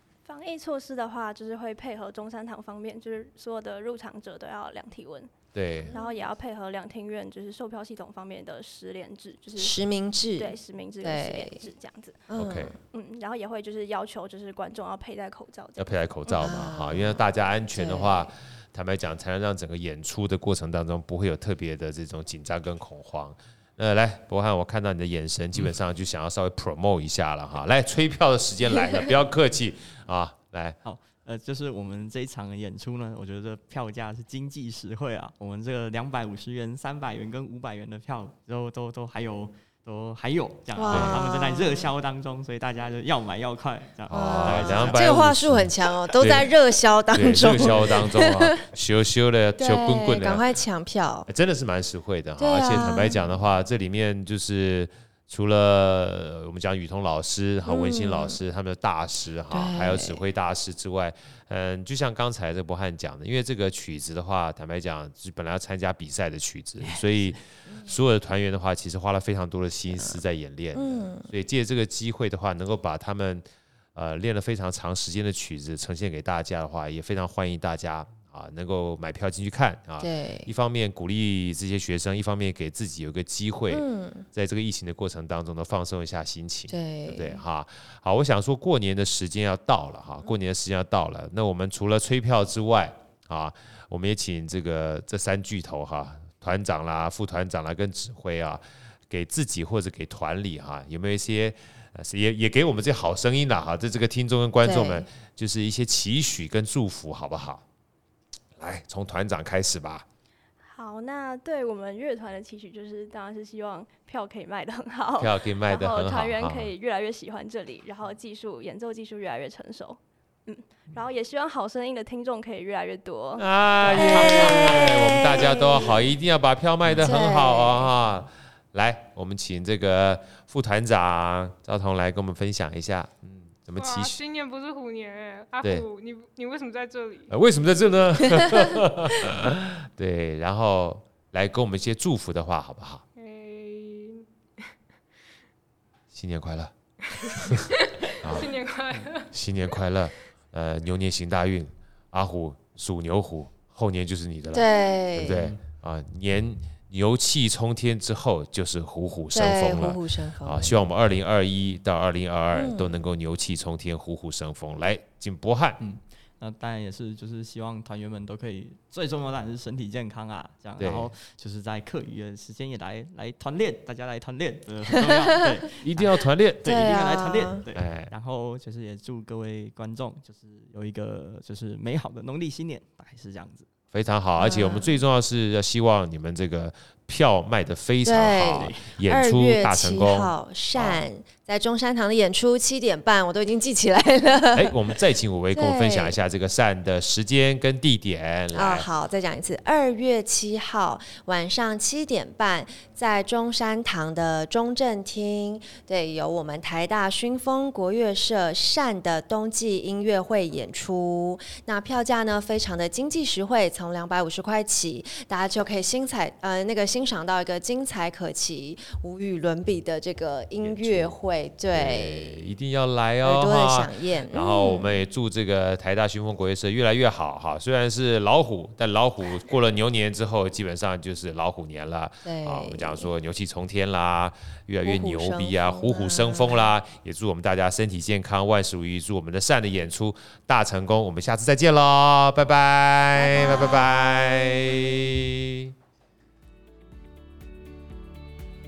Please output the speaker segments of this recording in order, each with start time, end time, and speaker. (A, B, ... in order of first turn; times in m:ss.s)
0:00.2-0:05.3 A
0:05.5-0:05.9 B
0:05.9-0:09.8 A
0:09.6-0:11.6 C
0:10.4-0:12.2 A
0:12.3-0:12.8 C
0:12.4-0:12.8 B
0:12.9-0:15.9 A
0:15.8-0:30.8 B
0:16.3-0:18.3 C
0:30.8-0:45.3 D
0:40.7-0:41.9 C
0:40.9-0:41.3 B
0:44.1-0:45.7 B
0:44.1-0:48.6 C
0:46.2-0:46.5 B
0:47.1-0:50.4 B
0:47.5-0:47.9 D
0:49.6-0:51.3 C
0:51.3-1:47.6 B
0:52.4-0:53.2 C
0:57.7-0:58.4 C
0:59.5-1:00.2 C
1:10.7-1:11.3 C
1:20.0-1:20.5 C
1:23.7-1:24.3 C
1:26.7-1:27.4 C
1:44.6-1:45.1 C
1:48.6-1:50.0 B
1:50.6-2:03.5 A
1:55.2-1:56.7 B
2:03.4-2:14.2 B
2:03.8-2:06.0 C
2:07.0-2:07.9 C
2:13.8-2:17.3 E
2:17.3-2:23.0 B
2:23.2-2:24.7 E
2:26.1-2:28.5 B
2:27.1-2:29.3 E
2:29.3-2:45.8 B
2:34.5-2:35.5 C
2:35.3-2:35.6 D
2:39.3-2:40.8 C
2:42.5-2:42.9 C
2:45.8-3:03.7 D
2:50.8-2:51.1 B
2:55.8-2:56.9 B
2:56.6-2:57.6 C
2:57.7-2:58.1 B
3:03.9-3:11.0 B
3:04.4-3:04.9 C
3:08.0-3:14.7 C
3:08.5-3:08.8 D
3:14.5-3:18.9 B
3:15.5-3:16.1 C
3:18.5-3:42.5 C
3:40.6-3:41.2 B
3:41.7-4:05.7 B
3:43.2-3:45.0 C
3:52.2-3:53.1 C
3:54.8-3:56.7 C
4:03.2-4:04.7 C